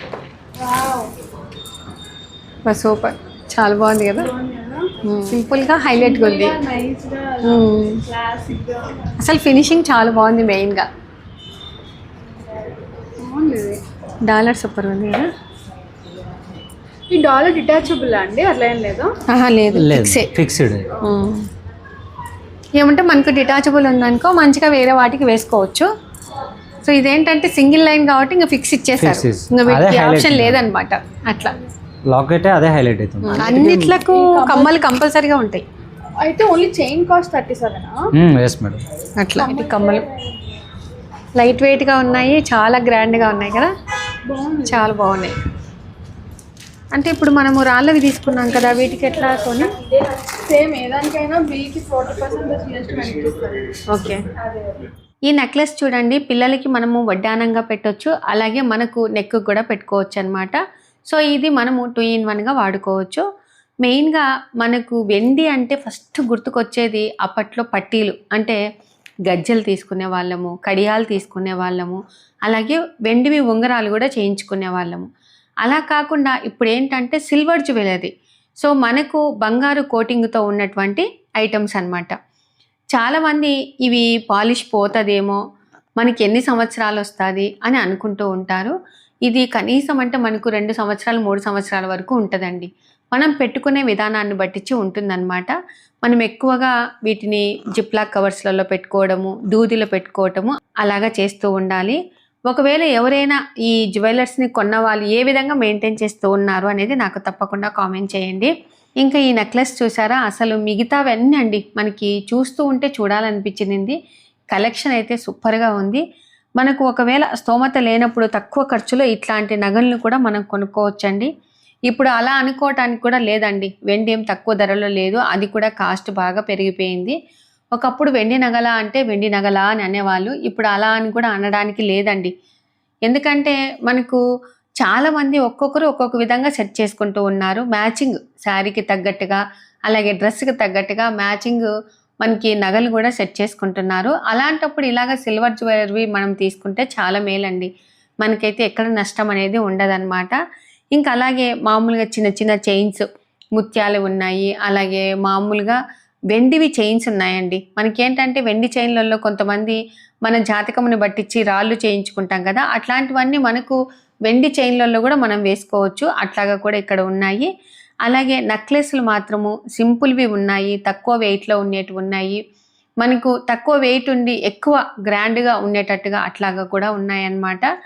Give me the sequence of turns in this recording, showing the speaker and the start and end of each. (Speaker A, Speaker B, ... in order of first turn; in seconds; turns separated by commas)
Speaker A: 0.6-1.1, Speaker B: 2.6-4.3, Speaker A: 4.2-4.9, Speaker B: 5.0-6.6, Speaker A: 6.0-9.0, Speaker B: 7.4-8.0, Speaker B: 9.2-10.9, Speaker A: 13.2-13.8, Speaker B: 14.2-15.3, Speaker A: 17.1-19.1, Speaker B: 19.3-20.3, Speaker C: 19.7-20.9, Speaker B: 21.0-21.4, Speaker B: 22.8-25.9, Speaker B: 26.8-31.5, Speaker C: 29.0-30.6, Speaker C: 32.1-34.0, Speaker B: 33.2-35.6, Speaker A: 33.4-34.8, Speaker A: 36.2-37.9, Speaker C: 38.1-38.8, Speaker B: 39.2-40.0, Speaker A: 39.4-40.3, Speaker B: 41.4-43.7, Speaker A: 44.3-44.9, Speaker B: 44.6-45.3, Speaker B: 46.9-49.7, Speaker A: 48.5-53.6, Speaker B: 53.9-54.2, Speaker B: 55.3-63.2, Speaker B: 63.8-68.6, Speaker B: 69.2-75.0, Speaker B: 75.6-82.2, Speaker B: 82.9-85.4, Speaker B: 86.0-102.0, Speaker B: 102.5-114.0, Speaker B: 114.5-116.0, Speaker B: 116.6-121.3, Speaker B: 121.9-127.2, Speaker B: 127.7-132.3, Speaker B: 133.1-134.2, Speaker B: 134.8-141.7, Speaker B: 142.2-147.7, Speaker B: 148.2-150.3, Speaker B: 150.9-153.0, Speaker B: 153.6-155.8, Speaker B: 156.3-167.5, Speaker B: 168.0-172.4, Speaker B: 173.0-177.7